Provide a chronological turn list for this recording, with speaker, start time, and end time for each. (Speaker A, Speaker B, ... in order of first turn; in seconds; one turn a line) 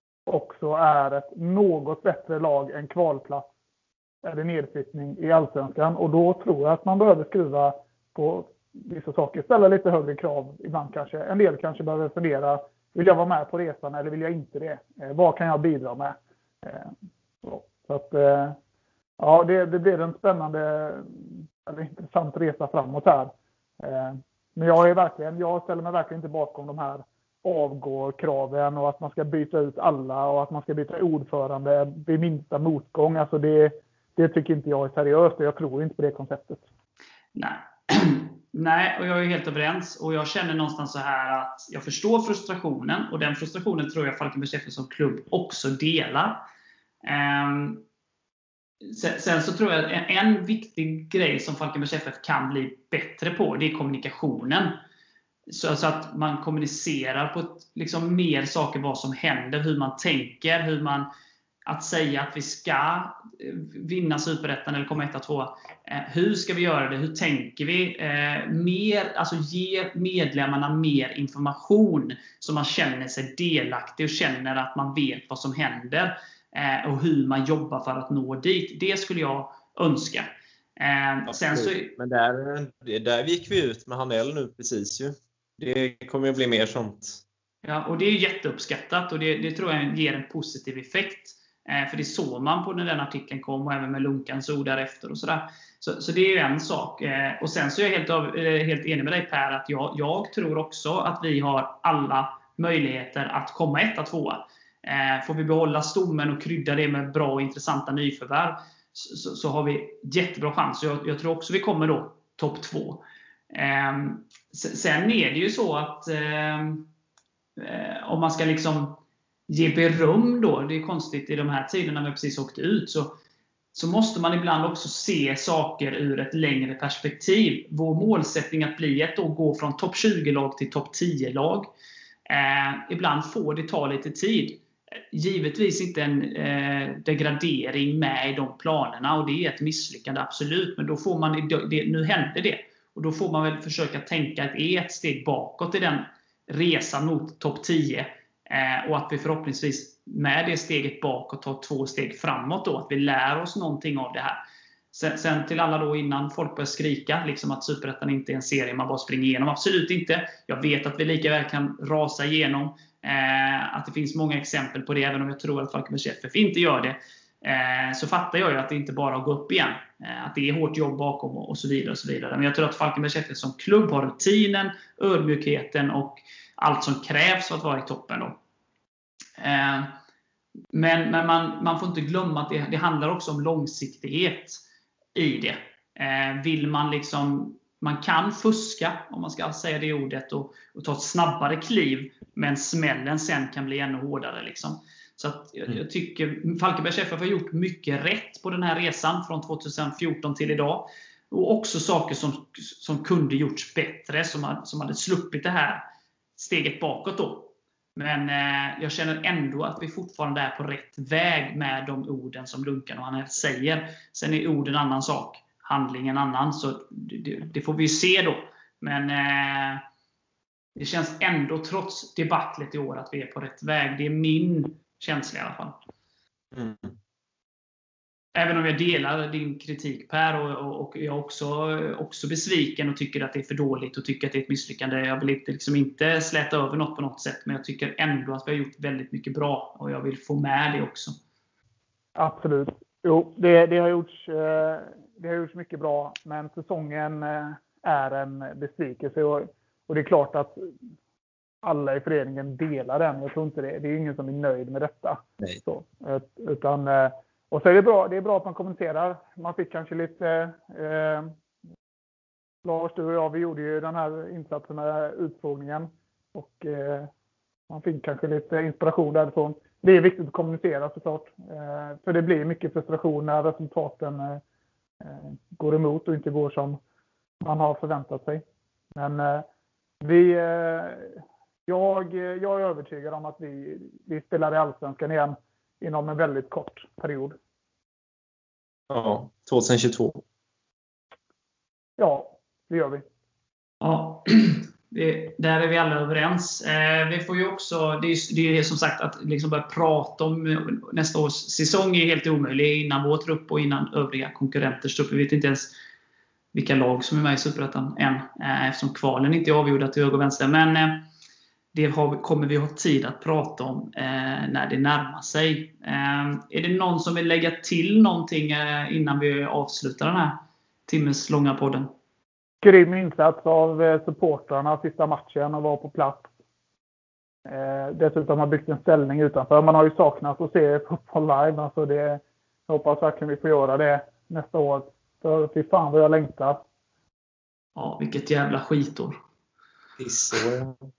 Speaker A: 0.3-3.5
Speaker A: 4.2-18.6
Speaker A: 19.2-36.6
Speaker B: 37.3-46.4
Speaker B: 47.0-47.8
Speaker B: 48.8-54.8
Speaker B: 55.5-61.1
Speaker B: 61.7-81.9
Speaker C: 81.3-87.2
Speaker B: 87.6-116.8
Speaker B: 117.6-123.1
Speaker B: 123.7-131.7
Speaker B: 132.3-154.4
Speaker B: 154.9-178.4
Speaker B: 179.4-179.9
Speaker B: 180.7-184.6
Speaker B: 185.1-205.8
Speaker B: 206.4-219.8
Speaker B: 220.8-225.8
Speaker C: 226.5-226.9
Speaker B: 228.3-241.2
Speaker A: 242.2-250.6
Speaker A: 251.6-261.3
Speaker A: 262.6-267.1
Speaker A: 267.7-274.4
Speaker A: 275.0-276.8
Speaker A: 277.4-278.4
Speaker A: 278.9-279.4
Speaker A: 280.0-287.4
Speaker C: 288.9-290.2
Speaker A: 292.0-293.0
Speaker B: 293.8-305.7
Speaker B: 306.5-311.1
Speaker B: 311.7-321.9
Speaker A: 322.6-326.3
Speaker A: 327.4-336.6
Speaker B: 337.8-339.1
Speaker C: 340.0-340.7